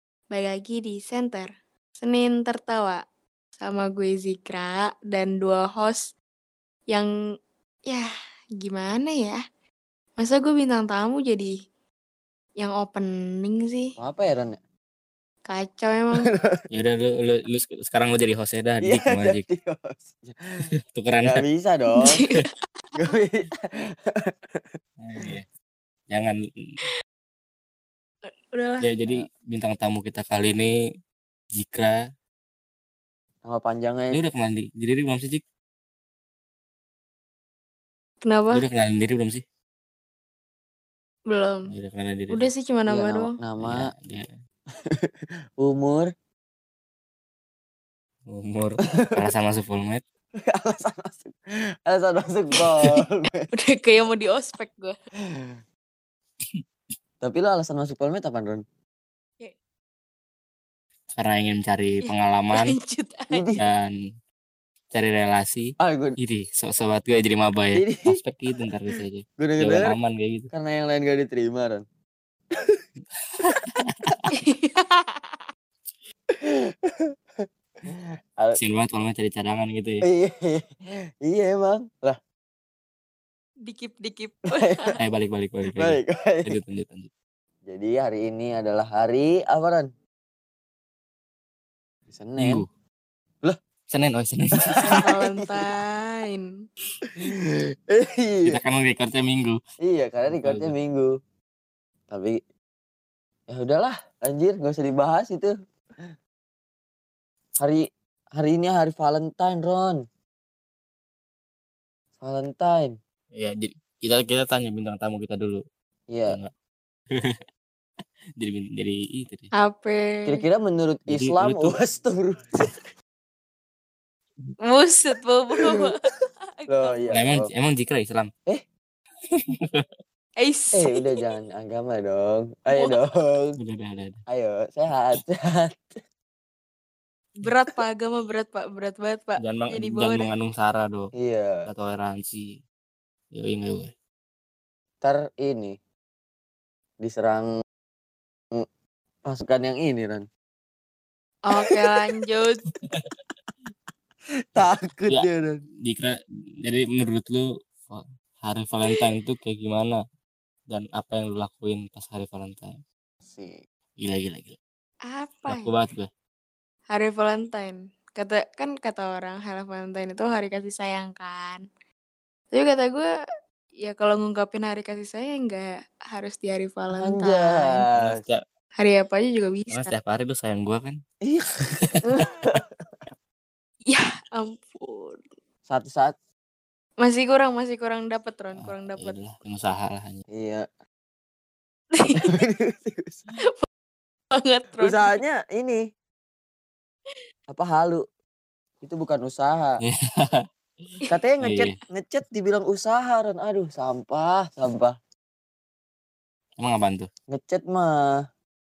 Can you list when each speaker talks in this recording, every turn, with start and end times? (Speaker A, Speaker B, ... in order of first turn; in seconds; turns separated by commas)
Speaker A: 0.3-3.0, Speaker A: 3.6-6.1, Speaker A: 7.9-9.4, Speaker A: 10.2-11.5, Speaker A: 12.6-14.0, Speaker B: 14.0-14.6, Speaker A: 15.5-16.3, Speaker B: 16.2-16.6, Speaker C: 16.7-19.4, Speaker B: 18.8-20.7, Speaker C: 20.9-21.4, Speaker B: 21.2-22.2, Speaker A: 22.0-22.5, Speaker B: 22.9-24.6, Speaker C: 25.0-25.4, Speaker C: 26.1-26.4, Speaker A: 28.3-28.9, Speaker C: 28.8-30.7, Speaker C: 31.6-32.0, Speaker B: 33.5-34.2, Speaker C: 34.1-35.4, Speaker A: 38.2-38.6, Speaker C: 38.5-39.4, Speaker A: 41.3-41.7, Speaker C: 41.7-42.5, Speaker A: 42.3-43.4, Speaker B: 42.9-43.9, Speaker C: 43.6-44.3, Speaker B: 44.9-46.1, Speaker C: 48.3-50.0, Speaker B: 48.9-49.2, Speaker B: 50.4-53.5, Speaker A: 53.5-55.0, Speaker B: 57.2-58.6, Speaker C: 61.1-62.8, Speaker A: 62.0-63.4, Speaker B: 63.3-63.6, Speaker C: 63.6-63.9, Speaker C: 64.9-70.5, Speaker B: 65.8-66.2, Speaker B: 67.8-68.2, Speaker B: 69.4-70.0, Speaker B: 70.5-71.8, Speaker B: 72.5-72.8, Speaker B: 73.5-74.3, Speaker C: 73.6-74.2, Speaker A: 74.3-75.4, Speaker B: 76.3-77.5, Speaker C: 78.6-80.0, Speaker B: 80.0-80.7, Speaker B: 81.2-82.2, Speaker A: 83.7-85.0, Speaker B: 84.5-85.0, Speaker C: 85.0-87.1, Speaker B: 85.8-86.5, Speaker B: 87.7-89.9, Speaker B: 92.1-92.7, Speaker C: 92.4-92.7, Speaker C: 93.9-94.8, Speaker B: 94.6-95.7, Speaker A: 94.8-96.5, Speaker B: 97.2-98.6, Speaker C: 98.5-99.6, Speaker B: 99.8-101.1, Speaker C: 100.4-100.7, Speaker B: 102.1-102.4, Speaker B: 103.5-105.5, Speaker B: 107.6-110.0, Speaker B: 112.2-113.0, Speaker C: 113.3-115.6, Speaker B: 116.1-116.4, Speaker C: 117.1-117.4, Speaker C: 118.4-119.5, Speaker A: 119.5-120.4, Speaker B: 120.3-122.4, Speaker C: 121.1-121.8, Speaker A: 124.6-127.0, Speaker B: 125.6-125.9, Speaker B: 126.7-127.5, Speaker C: 127.1-128.3, Speaker C: 129.3-129.9, Speaker A: 130.4-131.3, Speaker B: 130.7-133.6, Speaker C: 133.6-134.2, Speaker B: 134.3-136.0, Speaker A: 137.4-140.3, Speaker C: 139.4-141.1, Speaker B: 141.2-141.7, Speaker C: 141.7-142.6, Speaker C: 143.3-143.9, Speaker B: 145.0-145.8, Speaker B: 147.0-147.5, Speaker B: 149.2-150.3, Speaker A: 151.5-152.6, Speaker B: 151.5-152.1, Speaker B: 154.6-155.6, Speaker C: 154.6-155.3, Speaker C: 155.8-160.0, Speaker C: 160.7-162.8, Speaker B: 163.3-163.6, Speaker C: 164.0-164.6, Speaker A: 165.1-165.7, Speaker C: 165.5-166.1, Speaker A: 166.9-171.6, Speaker A: 172.5-173.1, Speaker A: 173.8-177.8, Speaker B: 176.9-178.2, Speaker C: 177.9-178.4, Speaker A: 178.8-180.0, Speaker C: 179.7-181.0, Speaker B: 181.2-182.7, Speaker C: 181.8-182.3, Speaker A: 183.9-185.2, Speaker B: 185.7-186.2, Speaker A: 187.0-189.2, Speaker C: 188.6-190.2, Speaker B: 190.3-190.7, Speaker A: 191.9-192.4, Speaker B: 192.2-193.3, Speaker A: 194.3-195.2, Speaker B: 194.8-195.8, Speaker B: 197.5-198.0, Speaker B: 198.8-199.8, Speaker C: 199.8-200.4, Speaker B: 201.1-204.9, Speaker C: 201.4-201.8, Speaker C: 206.6-207.1, Speaker B: 207.3-208.2